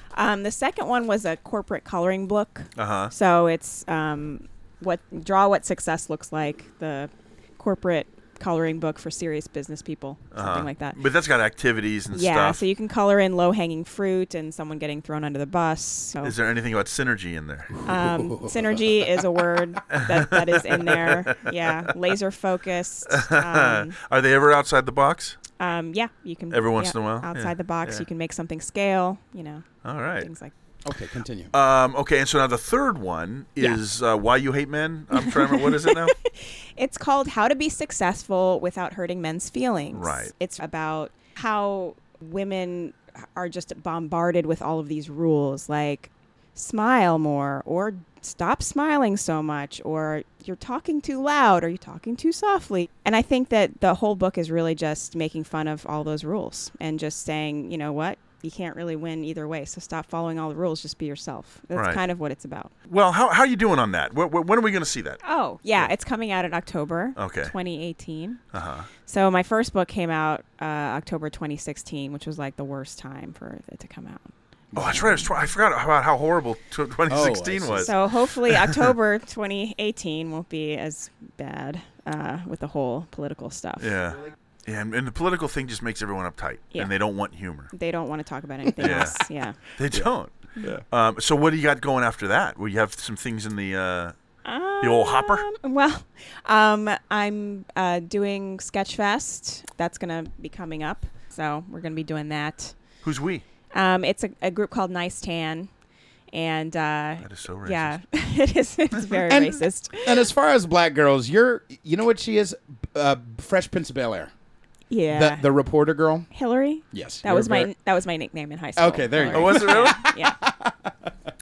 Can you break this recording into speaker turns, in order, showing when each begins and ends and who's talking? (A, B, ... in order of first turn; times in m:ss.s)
0:00.1-0:11.0 A
0:02.8-0:03.1 B
0:10.3-0:12.6 B
0:12.1-0:16.4 A
0:16.2-0:17.8 B
0:17.8-0:24.0 A
0:17.9-0:19.1 C
0:19.9-0:21.4 B
0:23.1-0:25.4 B
0:25.6-0:29.7 A
0:26.5-0:28.0 B
0:29.8-0:30.3 B
0:30.2-0:30.5 A
0:30.8-0:31.5 C
0:31.5-0:36.2 B
0:35.1-1:02.7 A
0:39.9-0:40.3 B
1:01.8-1:02.0 B
1:02.9-1:05.2 B
1:05.2-1:08.4 A
1:07.2-1:07.5 B
1:08.5-1:08.9 B
1:09.1-1:14.3 A
1:14.7-1:15.3 C
1:14.8-1:18.0 B
1:14.8-1:15.3 A
1:17.1-1:17.9 C
1:17.8-1:24.0 A
1:18.5-1:18.9 B
1:23.8-1:27.7 B
1:27.7-1:29.6 A
1:28.8-1:30.3 B
1:29.9-1:30.8 C
1:30.9-1:34.1 B
1:34.4-1:42.8 A
1:34.8-1:35.4 B
1:43.0-1:43.4 B
1:43.7-1:45.7 A
1:46.3-1:50.3 A
1:47.2-1:48.0 B
1:49.3-1:54.3 C
1:54.9-1:55.5 A
1:55.1-1:56.3 C
1:56.3-2:00.4 A
1:56.9-1:57.7 C
1:58.8-2:01.1 C
1:59.3-2:00.0 B